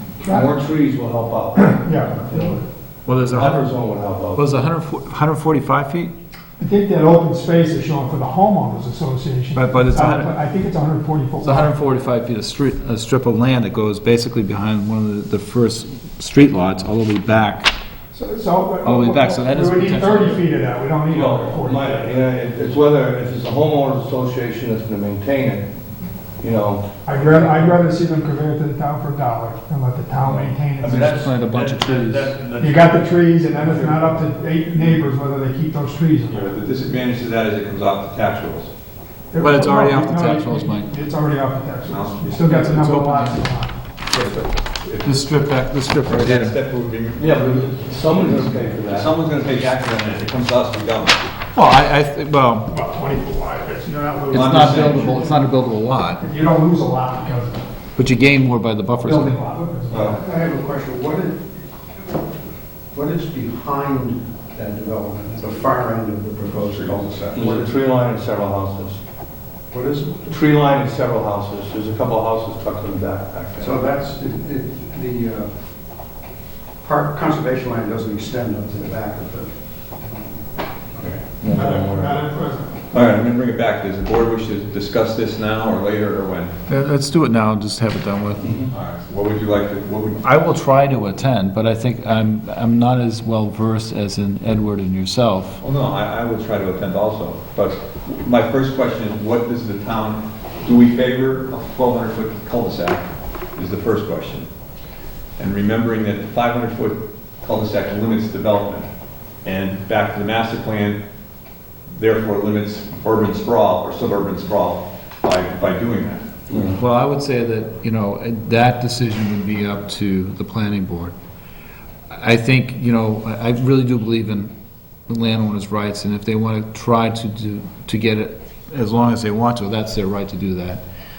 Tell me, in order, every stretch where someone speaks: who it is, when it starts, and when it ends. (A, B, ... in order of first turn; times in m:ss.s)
0:00.2-0:02.6 A
0:00.2-0:00.5 B
0:01.6-0:02.6 B
0:03.1-0:03.6 C
0:03.3-0:04.4 A
0:04.3-0:06.1 C
0:06.6-0:11.7 B
0:09.5-0:10.3 C
0:11.4-0:17.7 C
0:18.1-0:22.1 B
0:18.8-0:20.4 C
0:21.1-0:25.7 A
0:26.4-0:27.8 A
0:27.0-0:31.4 B
0:30.2-0:30.5 A
0:30.8-0:33.1 D
0:30.8-0:32.3 C
0:32.6-0:36.5 B
0:33.6-0:34.2 A
0:36.3-0:38.7 D
0:39.3-0:43.7 B
0:39.4-0:40.9 C
0:41.9-0:42.4 D
0:42.4-0:43.4 C
0:44.1-0:45.3 D
0:45.0-0:46.6 C
0:46.1-0:51.2 D
0:47.2-0:49.1 A
0:51.5-0:52.7 C
0:52.7-0:55.4 B
0:54.3-0:55.1 D
0:54.3-0:56.2 C
0:56.2-0:57.7 B
0:58.0-0:59.4 C
0:58.9-1:00.2 B
0:59.9-1:00.2 D
1:00.2-1:01.6 E
1:02.9-1:07.7 E
1:06.6-1:07.4 D
1:07.3-1:09.0 A
1:09.7-1:13.8 A
1:13.6-1:15.5 E
1:16.8-1:19.5 E
1:21.0-1:22.2 A
1:21.5-1:22.8 B
1:22.9-1:26.5 D
1:26.7-1:28.6 C
1:28.7-1:30.2 D
1:30.2-1:35.6 C
1:35.6-1:44.5 D
1:45.4-1:48.9 D
1:49.4-1:51.0 D
1:51.9-1:56.2 D
1:56.5-1:56.8 A
1:56.7-2:01.2 C
2:02.1-2:04.5 C
2:05.1-2:10.8 C